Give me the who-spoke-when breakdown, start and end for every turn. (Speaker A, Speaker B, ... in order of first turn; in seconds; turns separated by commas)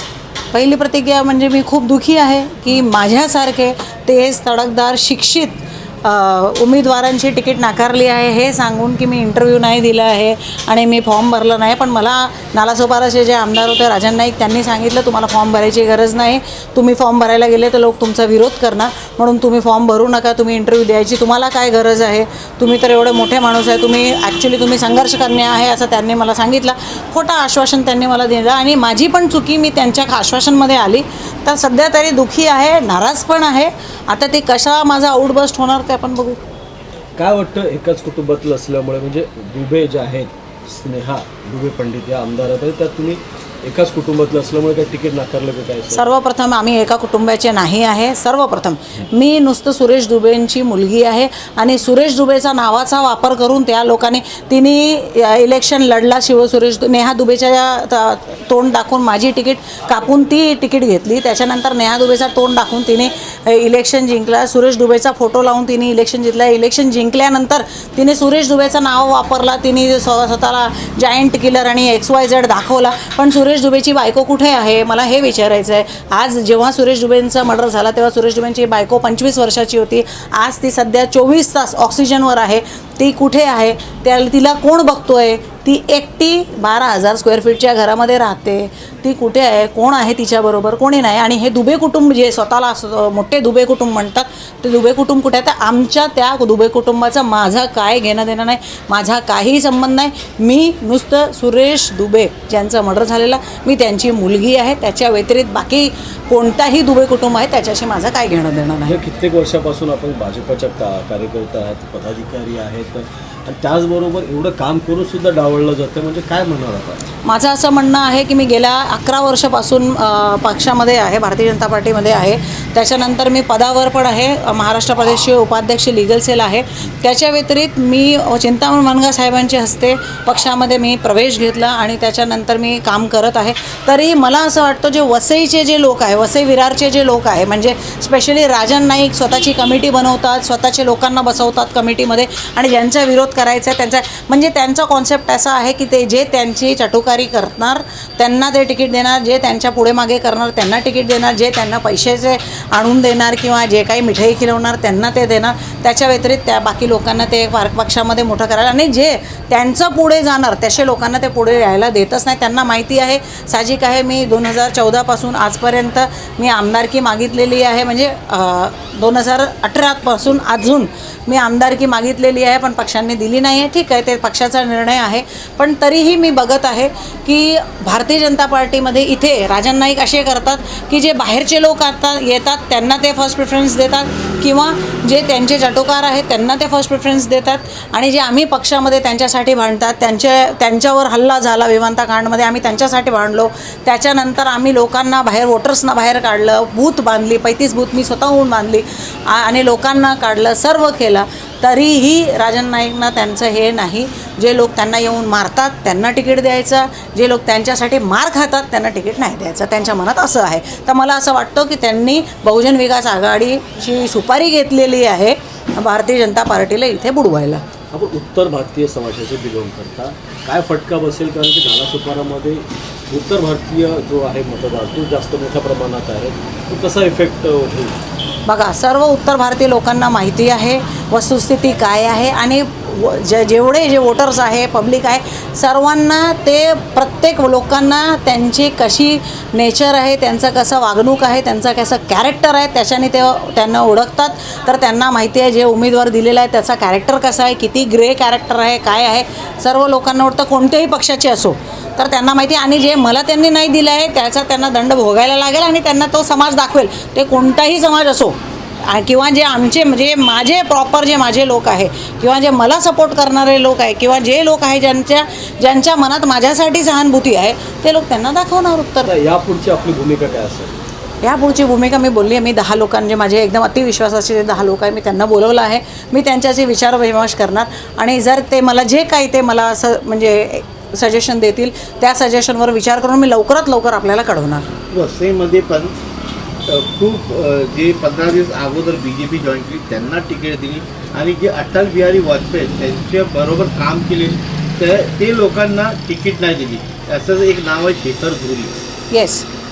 Speaker A: 0.5-36.4, Speaker B: 37.2-46.0, Speaker A: 45.9-109.0, Speaker B: 108.9-117.0, Speaker A: 117.2-217.6, Speaker B: 217.9-228.0, Speaker A: 228.5-269.1, Speaker B: 269.1-270.8, Speaker A: 271.2-284.7, Speaker C: 284.9-285.9, Speaker C: 286.7-298.7, Speaker A: 299.1-299.4